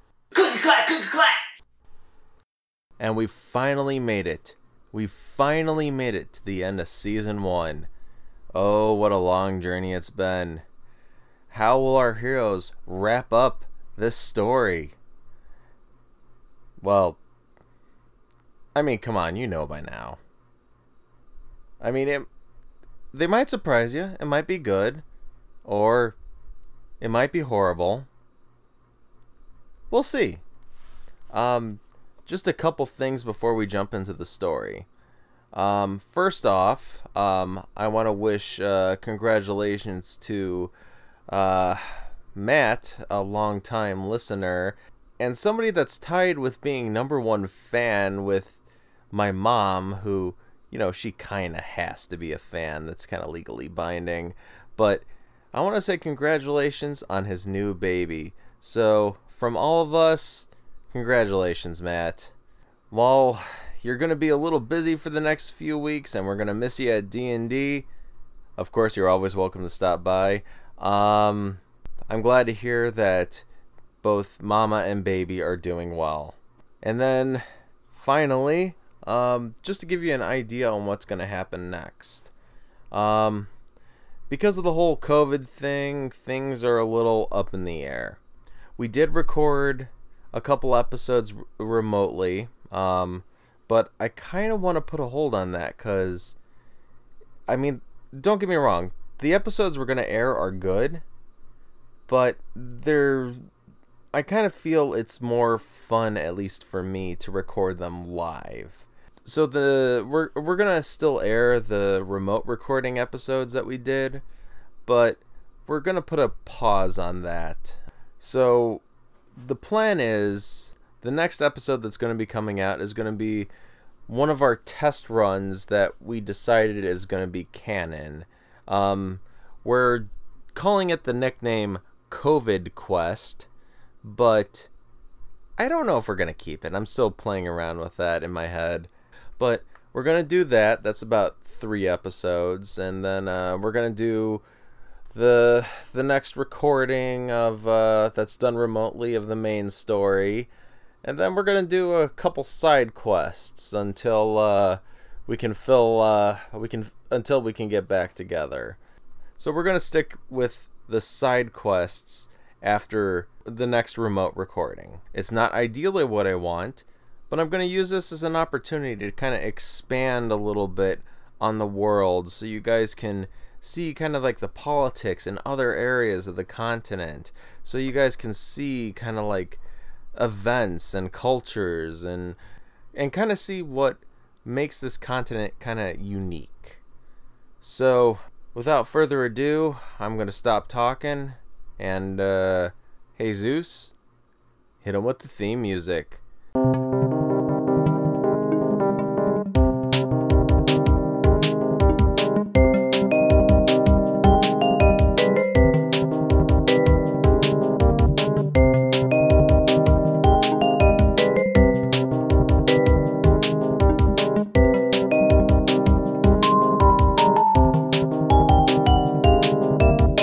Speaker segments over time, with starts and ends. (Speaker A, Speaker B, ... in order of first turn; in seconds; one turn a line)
Speaker A: 3.0-7.9
Speaker A: 8.5-10.6
Speaker A: 11.5-14.9
Speaker A: 16.8-17.2
Speaker A: 18.7-20.2
Speaker A: 21.8-22.3
Speaker A: 23.1-25.0
Speaker A: 25.6-26.1
Speaker A: 27.0-28.1
Speaker A: 29.9-30.4
Speaker A: 31.3-34.9
Speaker A: 35.5-40.7
Speaker A: 41.3-41.8
Speaker A: 42.3-48.6
Speaker A: 49.1-62.3
Speaker A: 62.9-67.8
Speaker A: 68.6-73.4
Speaker A: 74.0-82.3
Speaker A: 82.9-83.5
Speaker A: 84.3-88.2
Speaker A: 88.8-96.3
Speaker A: 97.5-101.0
Speaker A: 102.1-103.4
Speaker A: 104.1-114.2
Speaker A: 114.8-118.8
Speaker A: 119.4-123.5
Speaker A: 124.1-133.5
Speaker A: 134.0-134.7
Speaker A: 135.6-144.4
Speaker A: 145.1-150.5
Speaker A: 151.0-158.8
Speaker A: 159.4-179.6
Speaker A: 180.1-182.4
Speaker A: 182.9-186.8
Speaker A: 187.6-193.9
Speaker A: 194.8-196.2